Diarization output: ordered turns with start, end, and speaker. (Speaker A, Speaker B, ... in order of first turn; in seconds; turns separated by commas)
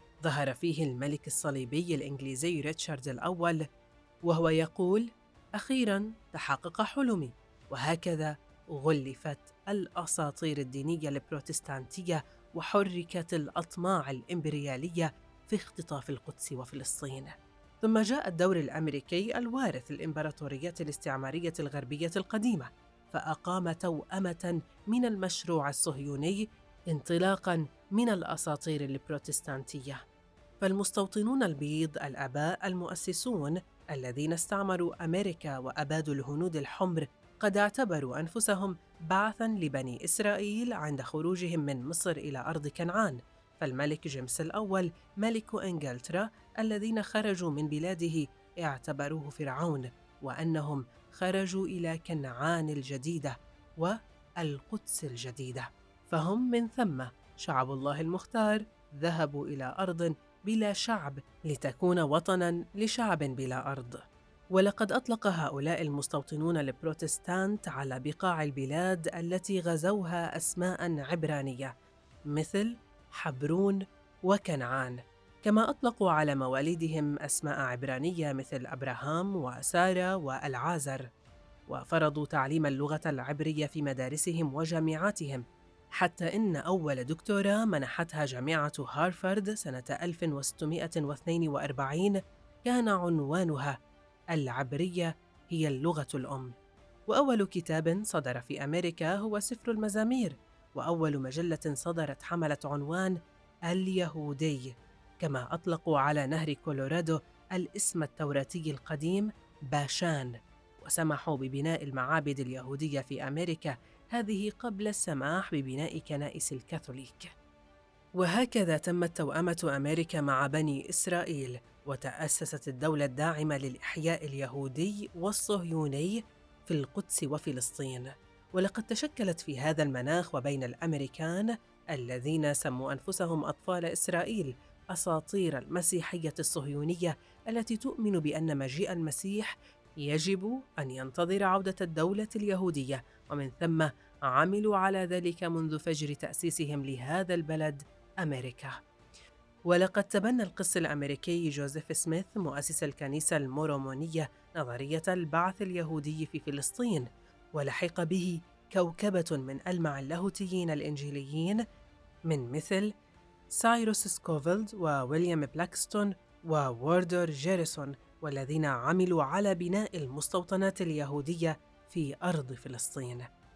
Speaker A: 0.2-3.6, Speaker A: 4.3-30.0, Speaker A: 30.6-64.0, Speaker A: 64.5-71.7, Speaker A: 72.3-81.0, Speaker A: 81.7-85.4, Speaker A: 86.0-93.8, Speaker A: 94.3-96.5, Speaker A: 97.1-103.2, Speaker A: 103.7-117.3, Speaker A: 118.2-148.8, Speaker A: 149.7-161.6, Speaker A: 162.3-162.9, Speaker A: 163.5-173.3